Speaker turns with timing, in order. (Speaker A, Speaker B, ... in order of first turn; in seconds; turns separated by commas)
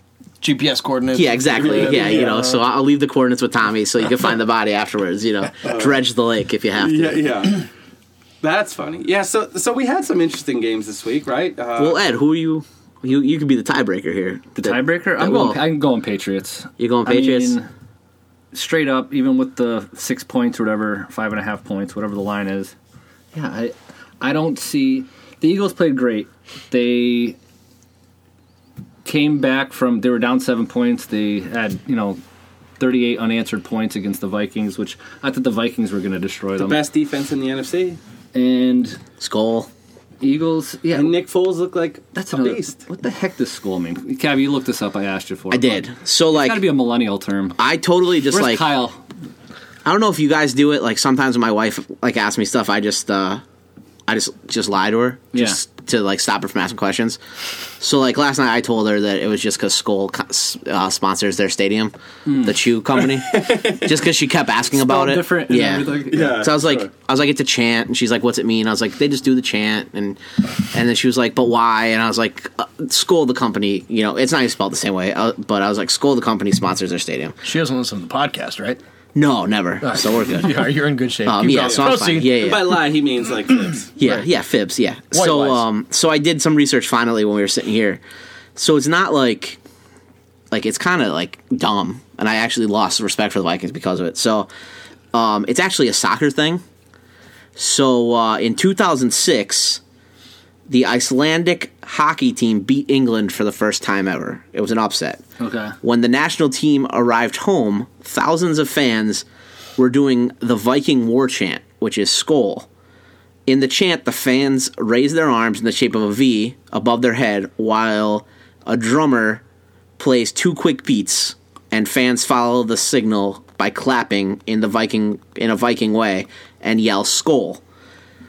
Speaker A: 0.4-2.5, Speaker B: 1.1-7.3, Speaker C: 1.5-2.4, Speaker C: 5.6-6.0, Speaker C: 6.8-7.7, Speaker C: 8.4-12.0, Speaker B: 11.8-15.6, Speaker D: 14.6-17.7, Speaker B: 16.8-17.6, Speaker D: 18.5-22.7, Speaker D: 23.3-27.4, Speaker D: 29.1-32.2, Speaker D: 32.8-36.8, Speaker C: 36.6-38.0, Speaker D: 38.3-39.0, Speaker B: 39.2-39.7, Speaker D: 40.2-41.2, Speaker C: 40.9-42.8, Speaker D: 42.1-47.6, Speaker B: 45.5-46.6, Speaker B: 47.6-48.7, Speaker D: 48.3-49.0, Speaker B: 49.9-53.4, Speaker B: 54.1-57.2, Speaker D: 55.3-55.6, Speaker B: 57.8-77.4, Speaker D: 62.3-62.6, Speaker C: 63.1-63.9, Speaker D: 64.7-66.4, Speaker C: 66.1-66.9, Speaker A: 77.4-78.8, Speaker B: 79.2-82.7, Speaker A: 79.8-82.5, Speaker C: 81.6-83.9, Speaker B: 84.0-88.0, Speaker A: 85.1-85.6, Speaker B: 88.6-89.6, Speaker B: 90.5-94.5, Speaker B: 95.1-96.6, Speaker B: 97.5-99.8, Speaker B: 100.7-105.2, Speaker D: 105.4-105.8, Speaker B: 105.8-109.3, Speaker B: 109.8-112.7, Speaker B: 113.5-119.4, Speaker B: 120.0-127.6